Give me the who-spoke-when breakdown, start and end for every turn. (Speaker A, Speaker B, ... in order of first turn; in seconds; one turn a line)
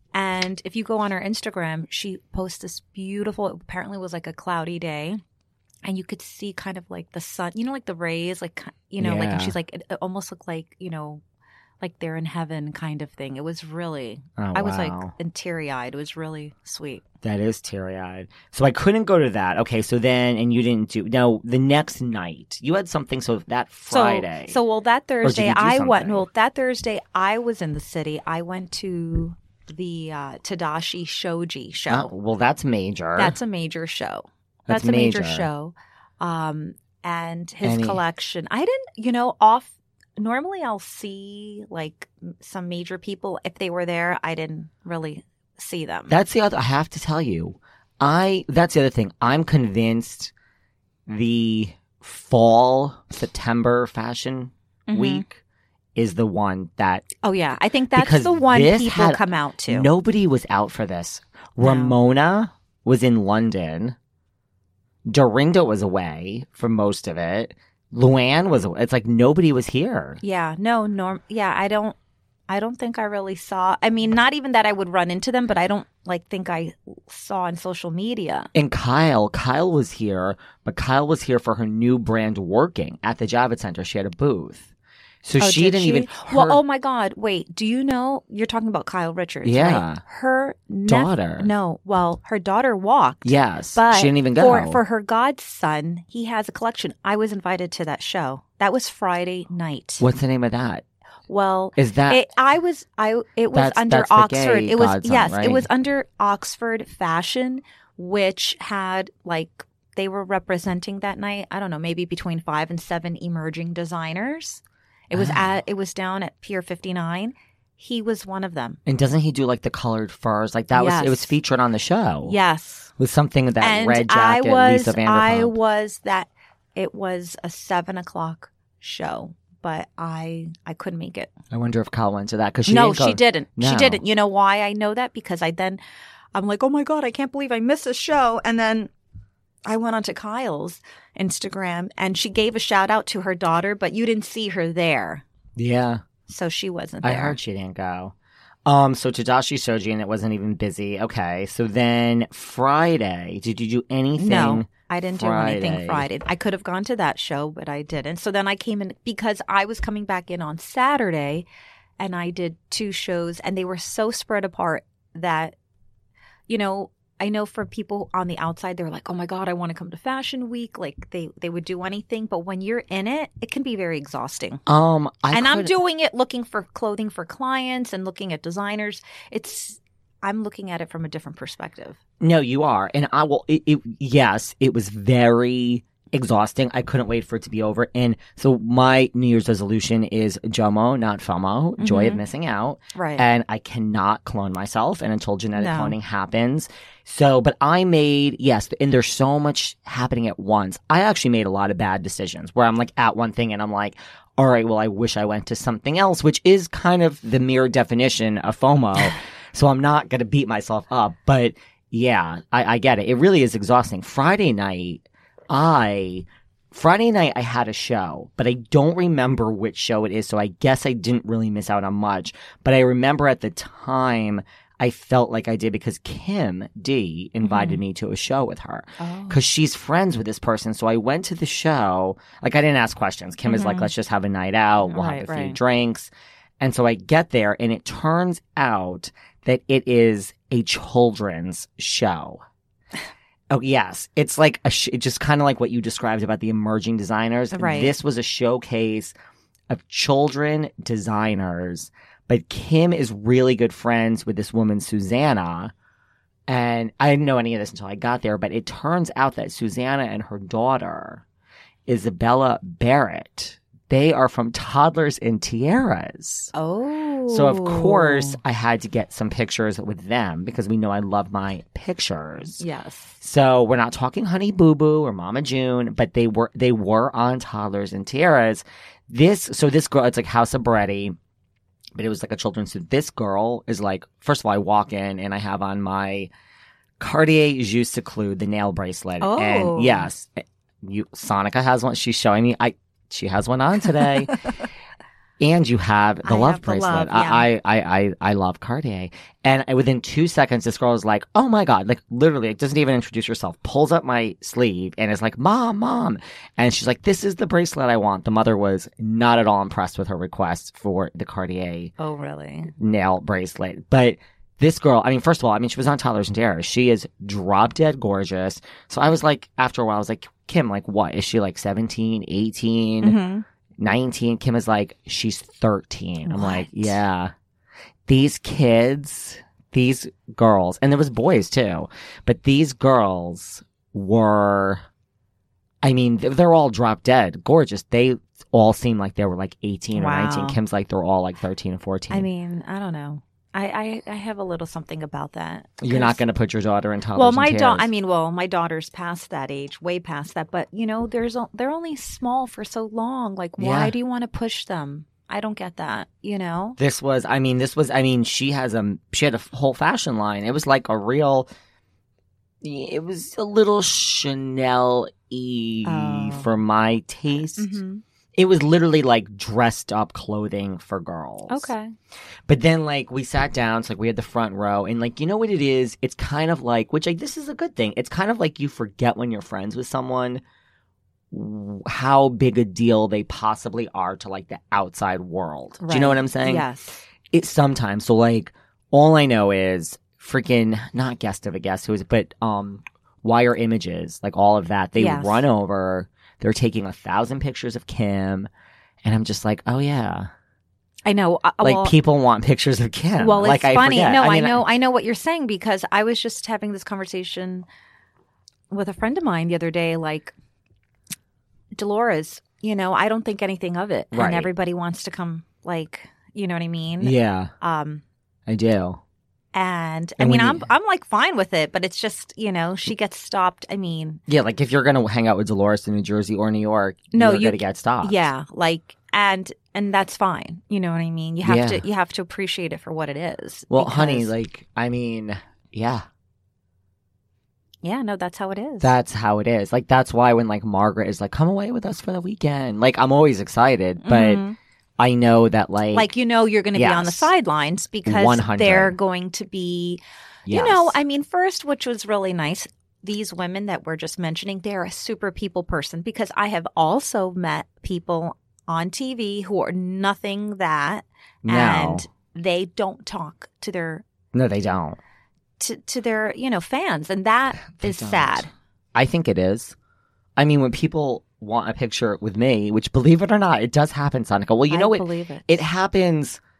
Speaker A: 0.1-5.2
Speaker A: 5.8-11.2
Speaker B: 9.0-9.6
Speaker A: 11.8-17.1
Speaker B: 14.4-15.1
Speaker B: 17.2-24.6
Speaker A: 23.9-32.1
Speaker B: 25.2-26.3
Speaker B: 31.9-33.4
Speaker A: 33.2-46.2
Speaker B: 34.7-35.5
Speaker B: 37.6-38.0
Speaker B: 46.1-50.3
Speaker B: 51.1-55.4
Speaker A: 54.9-55.3
Speaker B: 56.0-57.1
Speaker A: 57.2-59.9
Speaker B: 57.9-64.0
Speaker A: 61.6-62.0
Speaker B: 65.1-70.2
Speaker A: 70.2-72.0
Speaker A: 72.5-78.5
Speaker B: 78.5-84.7
Speaker B: 85.2-86.6
Speaker A: 85.4-100.0
Speaker B: 89.4-90.0
Speaker B: 90.9-91.5
Speaker B: 93.2-94.8
Speaker B: 100.0-100.8
Speaker A: 101.3-118.8
Speaker B: 101.8-102.3
Speaker B: 103.5-105.7
Speaker B: 115.1-115.4
Speaker B: 118.9-122.4
Speaker A: 120.8-121.4
Speaker A: 122.2-122.9
Speaker B: 123.0-125.6
Speaker A: 123.6-131.3
Speaker B: 131.5-134.0
Speaker A: 132.7-135.8
Speaker A: 136.3-138.9
Speaker A: 139.7-145.2
Speaker B: 145.6-146.0
Speaker A: 146.3-147.4
Speaker B: 147.0-148.1
Speaker B: 148.7-156.1
Speaker A: 154.2-161.5
Speaker A: 162.0-165.6
Speaker A: 166.5-174.6
Speaker B: 174.7-175.8
Speaker A: 175.3-182.0
Speaker B: 182.2-242.4
Speaker A: 191.8-192.2
Speaker A: 192.9-193.2
Speaker A: 195.6-195.9
Speaker A: 227.4-227.8
Speaker A: 229.0-229.4
Speaker A: 233.5-233.9
Speaker A: 234.8-235.6
Speaker B: 243.5-249.1
Speaker A: 247.5-247.9
Speaker B: 249.7-255.7
Speaker B: 256.5-261.2
Speaker B: 261.9-266.5
Speaker A: 266.5-268.4
Speaker B: 267.3-272.6
Speaker A: 272.6-273.2
Speaker B: 273.2-281.2
Speaker B: 281.9-286.3
Speaker B: 287.0-294.4
Speaker A: 289.2-290.1
Speaker B: 295.4-311.9
Speaker A: 296.2-297.5
Speaker A: 312.0-312.7
Speaker B: 312.8-323.2
Speaker A: 323.0-323.4
Speaker B: 323.8-327.3
Speaker A: 326.2-327.0
Speaker B: 328.1-334.8
Speaker B: 335.8-342.3
Speaker A: 339.9-340.6
Speaker A: 342.1-346.2
Speaker B: 345.8-347.9
Speaker A: 347.1-356.8
Speaker B: 353.6-353.9
Speaker B: 356.8-361.5
Speaker B: 362.6-367.8
Speaker A: 365.8-366.5
Speaker A: 367.6-368.0
Speaker B: 368.4-371.7
Speaker A: 371.5-371.9
Speaker B: 372.5-380.4
Speaker B: 381.3-386.7
Speaker A: 385.8-387.0
Speaker B: 387.3-398.5
Speaker A: 395.0-395.4
Speaker B: 399.0-400.3
Speaker A: 401.1-402.0
Speaker B: 401.6-404.6
Speaker A: 403.2-407.7
Speaker A: 408.7-410.3
Speaker A: 411.8-418.0
Speaker B: 414.1-414.5
Speaker B: 417.0-417.5
Speaker B: 418.5-419.0
Speaker A: 419.5-424.2
Speaker B: 420.2-420.7
Speaker B: 424.3-428.3
Speaker A: 427.1-434.3
Speaker B: 431.4-431.9
Speaker B: 433.7-436.1
Speaker A: 437.8-438.9
Speaker B: 438.8-444.4
Speaker A: 444.0-444.6
Speaker B: 445.0-446.1
Speaker A: 445.9-464.0
Speaker B: 446.7-447.3
Speaker B: 448.1-449.0
Speaker B: 450.5-451.0
Speaker B: 461.4-462.1
Speaker B: 464.3-465.0
Speaker A: 465.6-468.5
Speaker B: 467.8-469.8
Speaker B: 470.4-476.4
Speaker A: 474.7-475.6